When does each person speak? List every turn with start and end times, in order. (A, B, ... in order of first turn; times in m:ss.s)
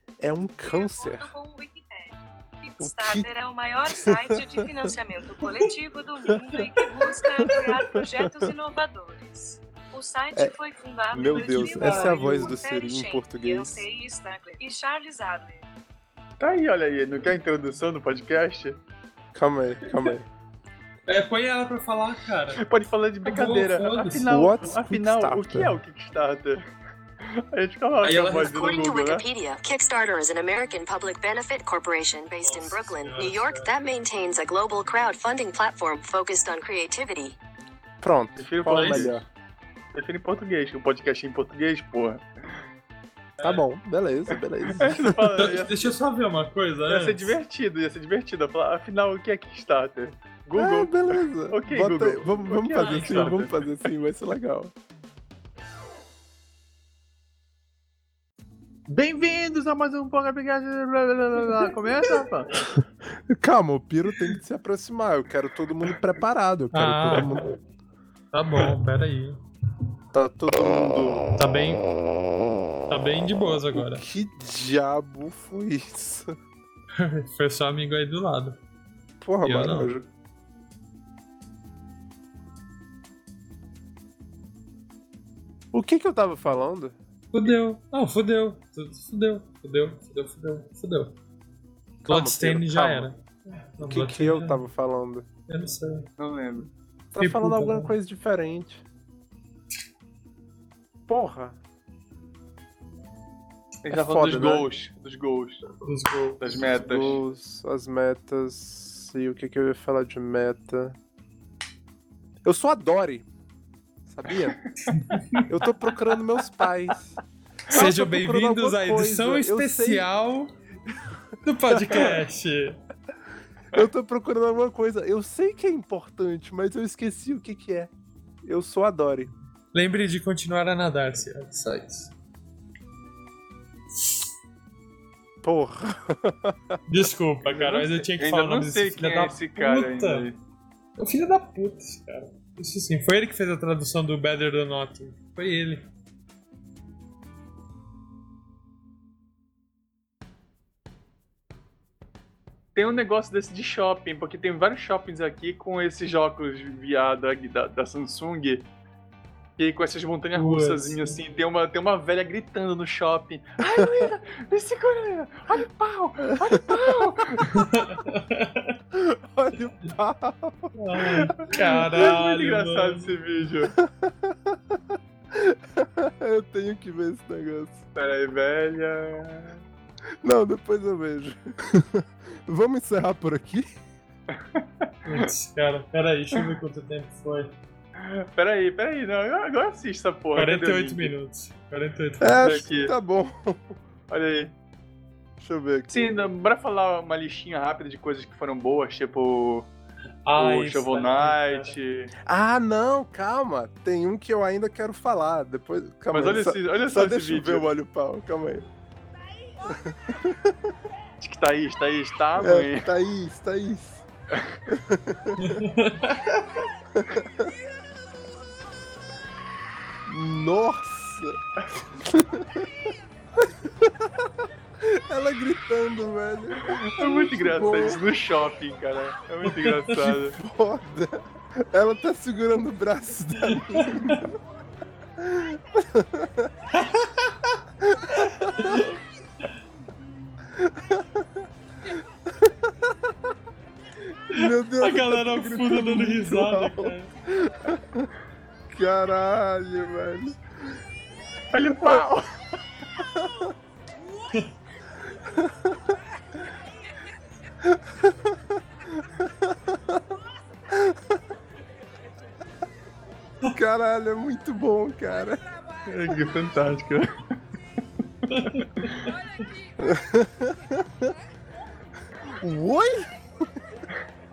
0:00.2-0:01.3 A
0:00.6-0:15.7 B
0:02.8-0:03.3 A
0:03.9-0:04.9 A
0:06.4-0:08.5 A
0:11.1-0:13.9 A
0:11.5-0:12.6 C
0:16.4-0:18.8 D
0:19.3-0:20.3 A
0:21.1-0:22.6 C
0:22.6-0:26.6 D
0:23.2-0:24.3 C
0:24.3-0:25.8 A
0:27.2-0:29.2 D
0:28.0-0:28.9 C
0:28.6-0:37.4 E
0:32.4-0:33.7 C
0:38.0-0:39.2 A
0:38.4-0:39.2 D
0:38.7-0:39.1 C
0:39.9-0:42.6 D
0:43.4-0:43.6 C
0:43.4-0:45.2 A
0:44.7-0:46.0 D
0:45.4-0:47.4 C
0:46.9-0:53.6 D
0:50.6-0:54.7 A
0:52.8-0:53.4 C
0:58.9-1:02.5 D
1:03.3-1:07.5 A
1:06.7-1:07.6 C
1:08.3-1:09.4 C
1:10.1-1:11.3 A
1:11.4-1:11.8 C
1:12.9-1:14.0 C
1:13.7-1:16.3 A
1:17.0-1:18.6 C
1:19.2-1:20.0 A
1:19.4-1:19.9 C
1:25.7-1:27.5 A
1:27.3-1:31.2 C
1:32.0-1:33.1 A
1:32.1-1:34.6 C
1:33.8-1:35.3 A
1:35.5-1:36.1 C
1:36.2-1:36.7 D
1:37.1-1:38.8 A
1:37.2-1:37.9 C
1:41.1-1:41.6 A
1:43.8-1:45.8 D
1:43.9-1:44.7 A
1:45.8-1:46.6 C
1:46.4-1:47.2 D
1:46.6-1:51.0 A
1:52.4-1:53.3 A
1:54.1-1:54.6 A
1:54.9-1:55.2 C
1:55.5-1:57.2 A
1:57.7-2:00.5 C
1:57.7-2:00.1 A
2:01.4-2:02.8 C
2:01.8-2:02.1 A
2:03.7-2:07.9 A
2:08.4-2:09.3 A
2:09.7-2:12.1 C
2:15.4-2:16.8 A
2:16.9-2:20.3 C
2:17.5-2:20.4 D
2:21.0-2:25.9 C
2:32.8-2:38.7 D
2:39.6-2:47.8 D
2:40.3-2:41.4 C
2:47.5-2:48.8 C
2:49.0-2:50.7 A
2:50.8-2:53.2 C
2:51.3-2:53.7 D
2:53.8-2:54.6 A
2:55.3-2:57.8 A
2:58.0-2:59.6 D
3:00.2-3:03.7 A
3:04.3-3:04.9 D
3:05.1-3:07.5 C
3:08.0-3:11.1 D
3:10.4-3:12.6 C
3:12.2-3:13.7 A
3:12.4-3:13.0 D
3:14.1-3:14.5 D
3:15.4-3:16.3 A
3:15.9-3:19.7 D
3:20.3-3:21.8 C
3:20.4-3:22.1 D
3:22.3-3:28.7 A
3:26.1-3:27.7 D
3:30.1-3:30.5 A
3:31.2-3:32.9 D
3:32.4-3:34.0 A
3:34.7-3:35.4 A
3:35.4-3:36.7 C
3:37.0-3:37.5 A
3:40.1-3:42.7 A
3:43.7-3:43.9 A
3:45.1-3:48.0 A
3:46.6-3:50.4 D
3:49.4-3:50.1 C
3:50.4-3:54.3 A
3:53.4-3:54.2 C
3:55.3-3:56.3 A
3:56.7-3:57.6 C
3:58.0-3:58.6 A
3:58.2-3:59.0 C
4:00.6-4:01.2 A
4:04.3-4:08.1 A
4:04.4-4:07.1 C
4:08.7-4:10.4 A
4:11.5-4:12.3 D
4:13.0-4:13.3 A
4:17.7-4:18.1 A
4:23.5-4:25.4 A
4:25.9-4:27.1 D
4:28.2-4:28.8 D
4:28.3-4:29.1 C
4:29.8-4:30.8 A
4:32.4-4:33.1 A